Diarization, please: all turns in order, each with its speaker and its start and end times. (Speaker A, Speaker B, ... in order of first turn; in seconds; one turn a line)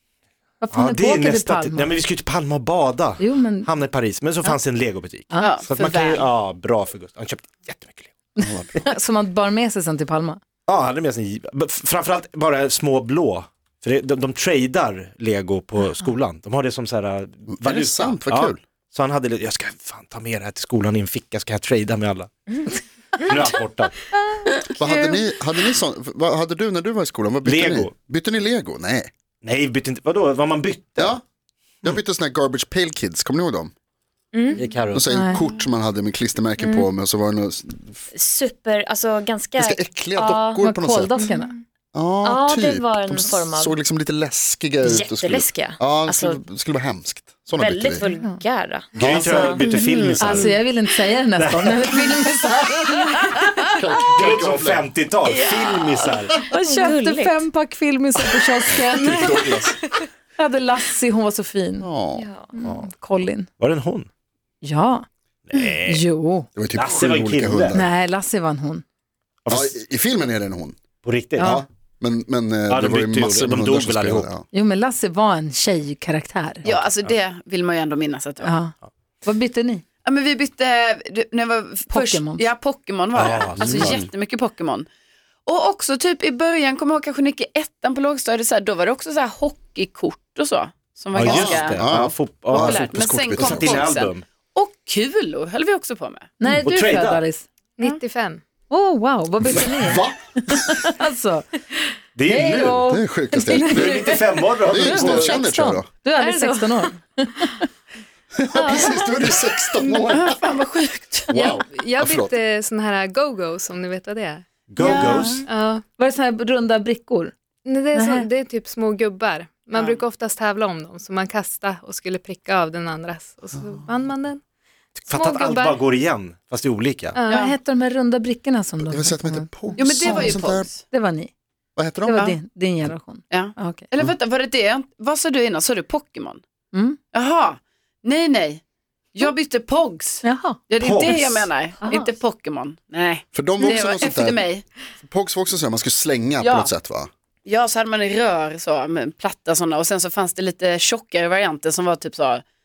Speaker A: 0.6-1.9
Speaker B: 0.7-8.2
Speaker A: 3.2-3.7
Speaker C: 5.4-6.3
Speaker A: 8.4-10.4
Speaker D: 8.4-8.7
Speaker B: 10.7-22.6
Speaker D: 17.5-18.6
Speaker B: 23.2-24.0
Speaker D: 24.6-29.1
Speaker B: 27.4-27.9
Speaker B: 29.4-31.2
Speaker D: 31.0-31.2
Speaker D: 31.8-33.7
Speaker B: 34.6-35.1
Speaker D: 34.9-38.0
Speaker A: 35.1-35.4
Speaker E: 38.2-39.5
Speaker D: 39.6-41.2
Speaker E: 40.2-40.5
Speaker A: 40.6-41.5
Speaker F: 41.3-41.6
Speaker D: 41.9-48.1
Speaker E: 42.6-43.5
Speaker E: 45.1-46.3
Speaker A: 48.0-48.4
Speaker E: 48.0-48.8
Speaker B: 49.0-50.6
Speaker D: 49.0-49.5
Speaker A: 49.2-49.6
Speaker C: 49.6-50.5
Speaker A: 50.2-53.7
Speaker B: 51.4-52.1
Speaker D: 53.7-54.9
Speaker B: 54.2-56.4
Speaker C: 55.3-56.0
Speaker A: 56.5-59.5
Speaker E: 56.7-57.3
Speaker D: 58.7-59.8
Speaker A: 60.4-61.9
Speaker D: 61.8-62.3
Speaker E: 62.2-62.5
Speaker A: 62.5-63.5
Speaker B: 63.6-64.1
Speaker A: 64.6-65.1
Speaker B: 65.5-66.0
Speaker A: 65.8-66.5
Speaker D: 66.6-67.9
Speaker B: 66.8-67.8
Speaker A: 67.7-68.8
Speaker B: 69.5-69.7
Speaker D: 69.5-70.8
Speaker B: 71.0-71.6
Speaker A: 71.4-71.7
Speaker D: 71.4-74.5
Speaker B: 72.7-74.3
Speaker A: 74.5-76.7
Speaker C: 76.6-78.5
Speaker B: 76.7-76.9
Speaker A: 78.4-79.8
Speaker C: 80.0-84.9
Speaker A: 81.9-82.5
Speaker B: 83.2-83.9
Speaker D: 83.6-84.1
Speaker C: 85.5-91.8
Speaker B: 91.1-94.2
Speaker D: 91.2-93.9
Speaker C: 92.5-96.3
Speaker A: 96.4-98.0
Speaker B: 96.7-97.2
Speaker F: 97.8-98.4
Speaker A: 98.7-107.6
Speaker D: 99.5-100.7
Speaker B: 102.2-102.9
Speaker D: 102.9-104.1
Speaker B: 103.6-105.4
Speaker D: 104.7-105.9
Speaker F: 106.2-107.6
Speaker D: 108.4-110.4
Speaker F: 108.5-109.3
Speaker C: 110.0-111.6
Speaker D: 111.3-112.3
Speaker F: 111.3-114.9
Speaker B: 114.7-115.5
Speaker C: 114.8-115.3
Speaker A: 115.1-115.4
Speaker F: 115.4-115.8
Speaker A: 116.0-117.3
Speaker F: 117.7-124.4
Speaker A: 117.9-118.3
Speaker C: 119.8-120.0
Speaker B: 125.0-127.2
Speaker F: 125.1-125.8
Speaker F: 127.1-127.5
Speaker C: 127.3-127.5
Speaker A: 127.3-130.4
Speaker D: 128.8-130.7
Speaker C: 129.8-130.8
Speaker A: 130.9-131.3
Speaker D: 131.8-132.2
Speaker A: 132.0-133.9
Speaker C: 133.3-136.4
Speaker A: 136.7-137.0
Speaker C: 137.1-138.6
Speaker C: 139.2-144.6
Speaker A: 140.2-141.3
Speaker B: 140.8-141.5
Speaker A: 141.8-142.1
Speaker D: 143.3-144.5
Speaker D: 145.0-147.1
Speaker C: 146.4-146.7
Speaker C: 147.4-152.4